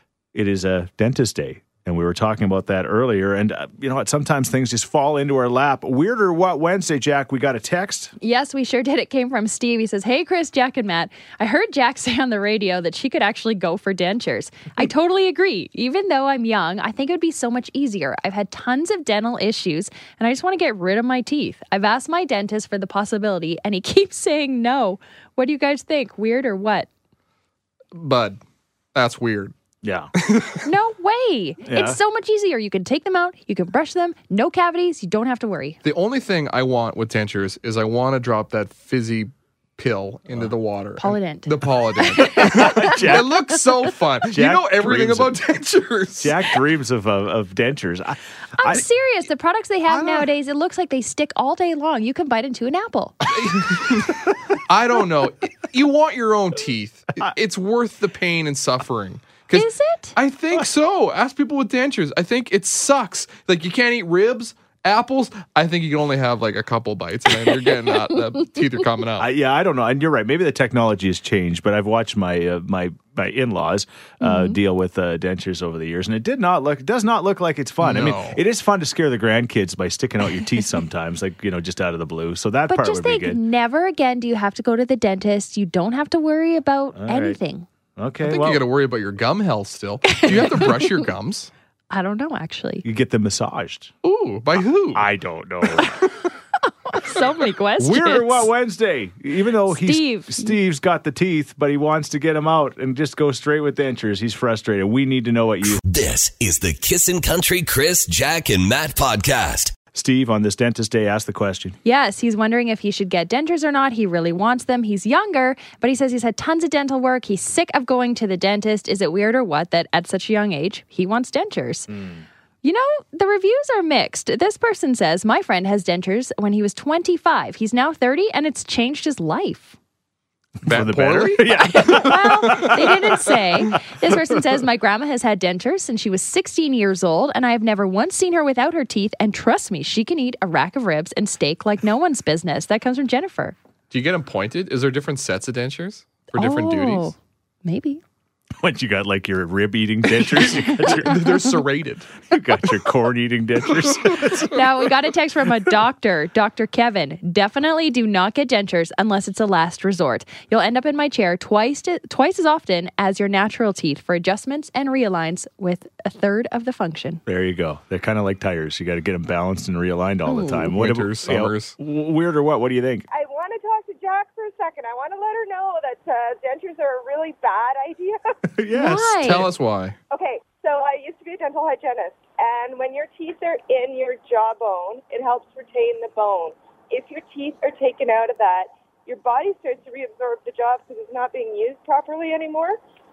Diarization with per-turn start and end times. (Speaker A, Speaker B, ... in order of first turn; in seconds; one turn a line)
Speaker A: 0.3-8.1
Speaker B: 8.2-26.9
Speaker C: 27.9-28.4
Speaker C: 28.9-29.5
Speaker A: 29.8-30.1
Speaker C: 30.2-30.6
Speaker B: 30.6-35.8
Speaker A: 31.6-32.0
Speaker C: 35.8-46.4
Speaker B: 41.0-43.2
Speaker A: 42.3-43.3
Speaker A: 44.3-45.4
Speaker A: 46.2-48.8
Speaker B: 48.6-53.2
Speaker A: 49.9-50.3
Speaker C: 53.3-69.3
Speaker B: 59.5-60.1
Speaker A: 69.2-83.4
Speaker B: 74.2-74.6
Speaker C: 77.8-78.4
Speaker B: 82.7-87.7
Speaker A: 86.9-87.4
Speaker A: 88.0-88.7
Speaker C: 88.2-91.5
Speaker B: 90.1-90.9
Speaker A: 90.3-90.5
Speaker B: 91.9-92.8
Speaker A: 92.8-93.9
Speaker C: 94.0-95.0
Speaker A: 94.9-95.9
Speaker B: 96.7-98.5
Speaker A: 97.8-105.8
Speaker B: 99.7-100.5
Speaker D: 105.8-109.8
Speaker A: 109.9-111.8
Speaker B: 111.8-121.9
Speaker A: 121.9-122.2
Speaker B: 122.6-129.8
Speaker A: 130.6-132.9
Speaker C: 130.7-132.7
Speaker B: 131.6-143.6
Speaker C: 143.9-147.1
Speaker B: 146.3-148.0
Speaker A: 148.6-151.5
Speaker C: 150.8-152.1
Speaker A: 152.3-154.6
Speaker C: 153.8-154.4
Speaker B: 154.5-167.2
Speaker A: 167.2-173.1
Speaker B: 170.2-170.7
Speaker C: 170.7-171.7
Speaker E: 173.1-178.3
Speaker A: 178.5-179.3
Speaker B: 178.7-179.5
Speaker C: 179.2-179.9
Speaker E: 180.1-192.8